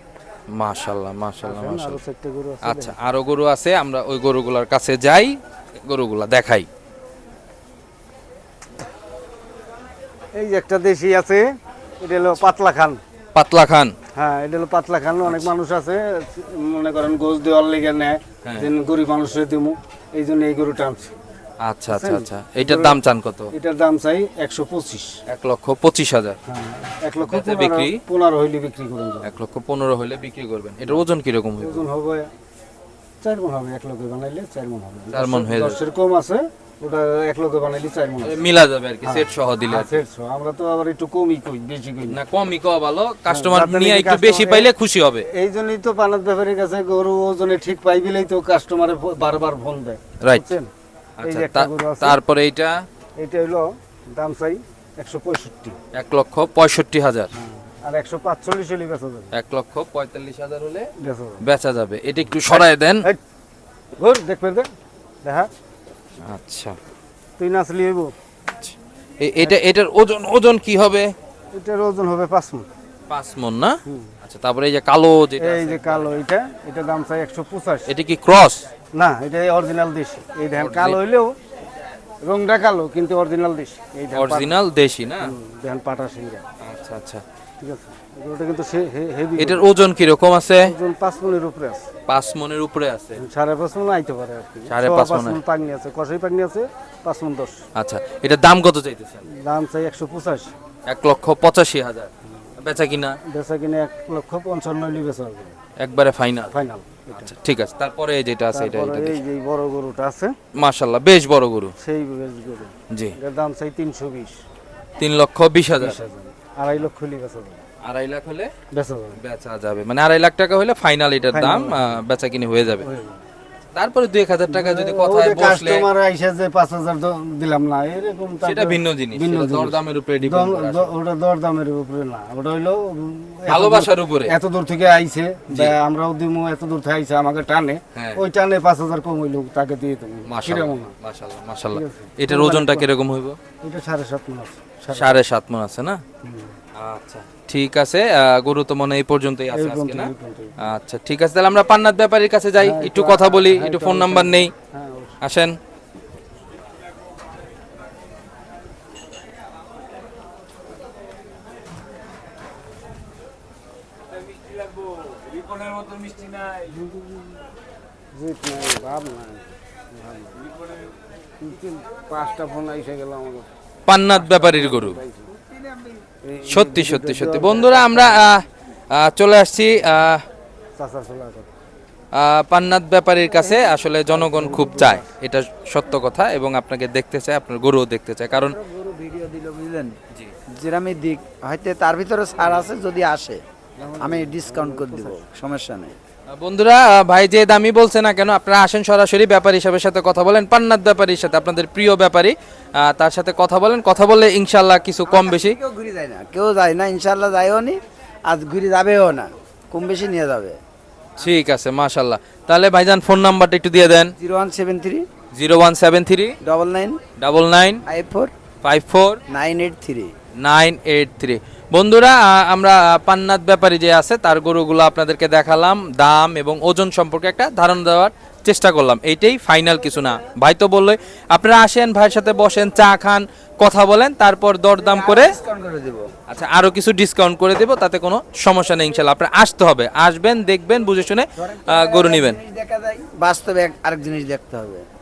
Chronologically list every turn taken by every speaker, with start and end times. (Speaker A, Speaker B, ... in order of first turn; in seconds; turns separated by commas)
Speaker A: 0.5-2.0, Speaker B: 1.4-3.0, Speaker A: 2.6-6.7, Speaker B: 10.3-11.4, Speaker B: 12.0-13.0, Speaker A: 13.3-13.9, Speaker B: 14.1-21.2, Speaker A: 18.4-18.7, Speaker A: 21.6-23.5, Speaker B: 21.9-23.0, Speaker B: 23.5-25.1, Speaker A: 25.3-26.4, Speaker B: 26.5-29.3, Speaker A: 27.2-28.0, Speaker A: 29.2-31.8, Speaker B: 31.6-32.3, Speaker B: 33.2-38.4, Speaker A: 35.1-35.8, Speaker A: 38.2-40.0, Speaker B: 39.0-42.2, Speaker A: 42.1-45.3, Speaker B: 43.3-44.7, Speaker B: 45.3-50.7, Speaker A: 50.2-50.5, Speaker A: 51.2-52.8, Speaker B: 51.2-52.2, Speaker B: 53.2-55.8, Speaker A: 55.9-57.3, Speaker B: 57.3-59.3, Speaker A: 59.3-60.9, Speaker B: 61.0-61.4, Speaker A: 61.4-63.0, Speaker B: 62.3-63.2, Speaker B: 64.0-64.7, Speaker B: 65.2-65.5, Speaker A: 66.3-66.8, Speaker B: 67.4-68.1, Speaker A: 68.6-71.1, Speaker B: 71.5-72.7, Speaker A: 73.1-76.2, Speaker B: 73.8-74.2, Speaker B: 75.4-77.9, Speaker A: 77.9-78.7, Speaker B: 78.9-81.3, Speaker A: 80.5-81.0, Speaker B: 82.2-84.5, Speaker A: 84.1-85.3, Speaker B: 85.2-86.4, Speaker A: 86.6-87.2, Speaker B: 87.6-89.7, Speaker A: 89.4-90.7, Speaker B: 90.6-91.9, Speaker A: 92.1-93.2, Speaker B: 93.2-97.6, Speaker A: 94.7-95.4, Speaker A: 97.7-99.2, Speaker B: 99.3-100.5, Speaker A: 100.9-103.2, Speaker B: 103.3-105.5, Speaker A: 105.8-106.5, Speaker B: 106.5-107.3, Speaker A: 107.1-109.2, Speaker B: 108.5-110.3, Speaker A: 110.6-111.7, Speaker B: 111.8-114.4, Speaker A: 115.0-116.0, Speaker B: 115.8-117.6, Speaker A: 117.8-118.5, Speaker B: 118.7-119.2, Speaker A: 119.2-122.8, Speaker B: 121.3-122.0, Speaker B: 122.8-123.2, Speaker A: 123.7-125.8, Speaker B: 124.5-140.9, Speaker A: 128.4-130.9, Speaker A: 133.4-134.3, Speaker A: 135.5-135.8, Speaker A: 137.9-138.2, Speaker A: 140.3-143.4, Speaker B: 141.7-142.9, Speaker B: 143.6-145.2, Speaker A: 144.9-146.0, Speaker B: 146.2-146.5, Speaker A: 146.8-154.5, Speaker B: 149.5-150.6, Speaker B: 152.6-155.2, Speaker A: 155.2-155.6, Speaker B: 166.6-167.4, Speaker B: 168.1-170.4, Speaker B: 171.4-173.5, Speaker A: 173.8-175.0, Speaker B: 174.1-175.3, Speaker B: 176.2-178.3, Speaker A: 176.5-180.2, Speaker B: 180.8-181.5, Speaker A: 182.1-188.6, Speaker B: 183.3-185.1, Speaker C: 188.5-189.9, Speaker C: 190.5-193.4, Speaker B: 193.8-195.2, Speaker C: 194.0-196.0, Speaker A: 196.3-205.6, Speaker C: 205.1-210.6, Speaker A: 211.2-214.1, Speaker C: 214.2-215.1, Speaker A: 215.3-216.3, Speaker C: 216.4-217.0, Speaker A: 217.2-217.8, Speaker C: 217.8-218.3, Speaker A: 218.6-219.2, Speaker C: 219.3-220.1, Speaker A: 220.4-235.3, Speaker C: 234.7-236.1, Speaker A: 236.3-242.4, Speaker C: 241.4-244.8